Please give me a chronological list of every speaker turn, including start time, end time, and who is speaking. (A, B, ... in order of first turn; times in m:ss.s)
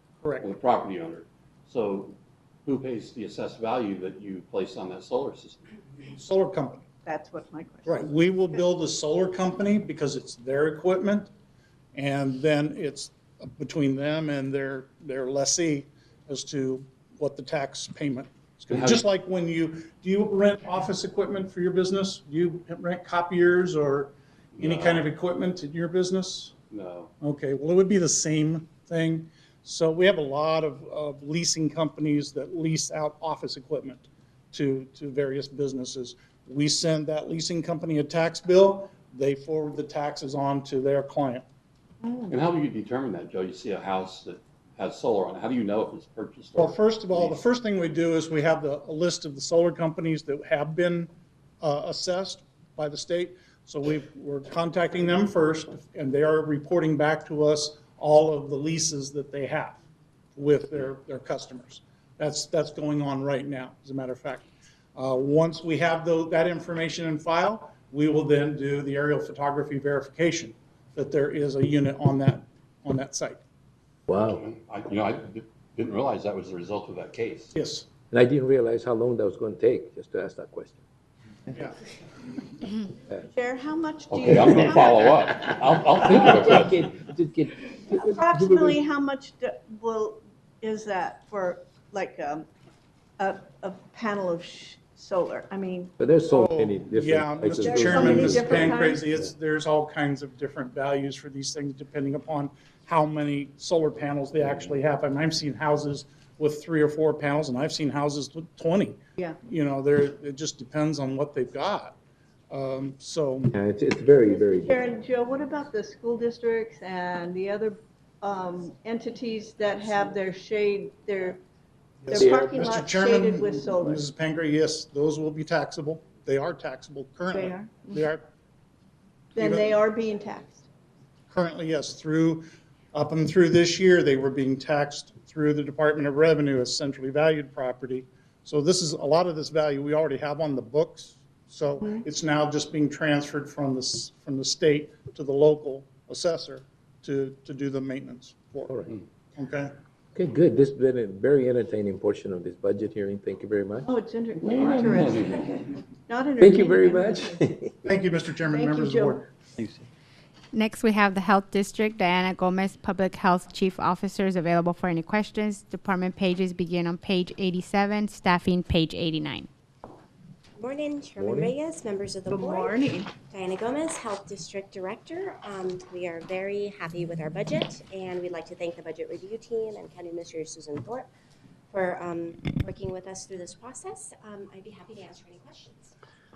0:00.4-0:05.6 A
0:06.0-0:06.9 B
0:07.0-0:08.1 C
0:07.8-0:11.3 B
0:11.9-0:26.5 B
0:18.7-0:19.0 A
0:24.6-0:25.1 A
0:26.7-0:27.1 A
0:27.2-0:41.4 B
0:42.3-0:47.4 A
0:46.6-0:51.1 B
0:51.6-0:59.8 B
1:00.3-1:13.4 B
1:14.1-1:14.4 D
1:14.2-1:17.6 A
1:17.5-1:17.8 B
1:18.1-1:20.8 D
1:23.2-1:25.1 C
1:24.1-1:26.8 A
1:26.0-1:28.8 D
1:27.9-1:32.5 C
1:33.2-1:35.9 C
1:36.0-1:38.8 D
1:36.3-1:52.0 B
1:37.6-1:39.1 C
1:52.5-1:53.5 B
1:53.5-1:54.7 D
1:54.2-2:01.4 C
2:02.0-2:08.3 B
2:02.1-2:04.1 C
2:02.2-2:02.6 D
2:07.3-2:08.0 C
2:09.3-2:10.7 C
2:09.4-2:09.8 B
2:11.3-2:28.8 B
2:29.4-2:29.7 B
2:30.1-2:33.9 D
2:33.8-2:37.4 C
2:34.4-2:35.4 A
2:36.4-2:37.9 D
2:37.8-2:39.3 B
2:38.4-2:39.2 C
2:40.5-2:49.5 E
2:50.6-2:52.8 F
2:51.2-2:51.5 D
2:52.3-2:53.1 C
2:53.3-3:01.1 F
3:01.7-3:05.9 F